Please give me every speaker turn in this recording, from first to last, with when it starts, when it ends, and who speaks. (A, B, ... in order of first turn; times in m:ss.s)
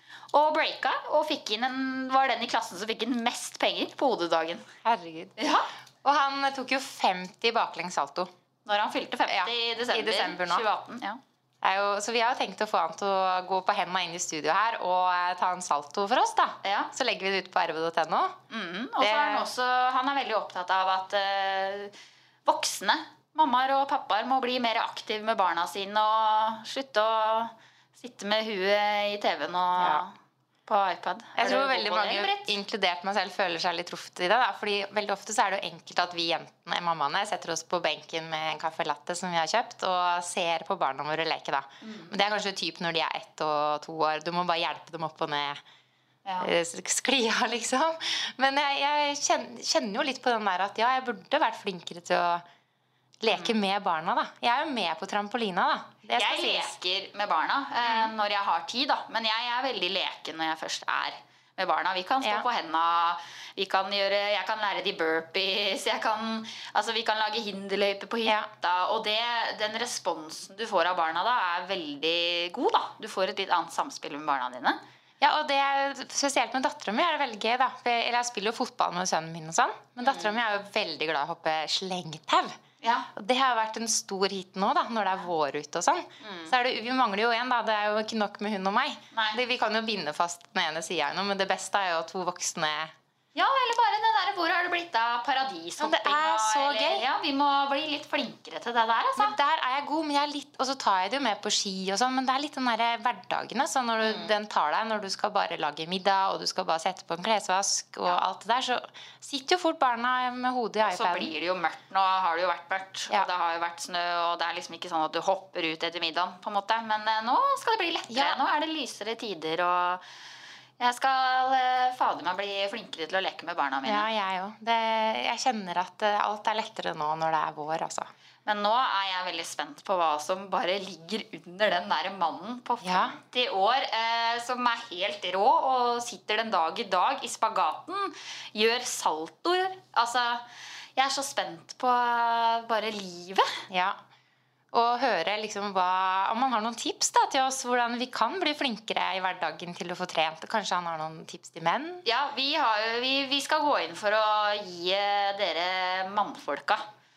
0:00.3-0:04.6 A
0:04.8-0:05.3 B
0:05.4-0:05.7 A
0:06.0-0:08.3 B
0:08.6-0:11.2 A
0:09.3-0:10.6 B
0:11.6-0:18.4 B
0:16.6-0:16.9 A
0:18.5-0:21.9 A
0:19.0-0:19.5 B
0:22.4-0:30.1 A
0:29.8-0:30.0 B
0:30.6-0:32.5 A
0:31.4-0:45.6 B
0:41.8-0:42.1 A
0:46.2-0:46.5 A
0:46.4-0:52.4 B
0:53.2-0:56.7 B
0:53.3-0:53.6 A
0:56.2-1:14.8 A
0:57.8-0:58.1 B
1:15.2-1:22.5 B
1:20.0-1:20.4 A
1:22.8-1:23.1 A
1:23.1-1:32.9 B
1:26.2-1:26.5 A
1:29.1-1:29.4 A
1:33.3-1:39.4 A
1:35.8-1:37.0 B
1:39.2-1:51.3 B
1:44.0-1:44.3 A
1:50.8-2:00.0 A
1:58.1-1:58.4 B
2:00.8-2:04.1 A
2:03.8-2:08.1 B
2:08.4-2:20.4 A
2:12.8-2:13.2 B
2:21.0-2:23.6 A
2:23.7-2:24.0 B
2:24.7-2:32.0 B
2:32.0-2:36.8 A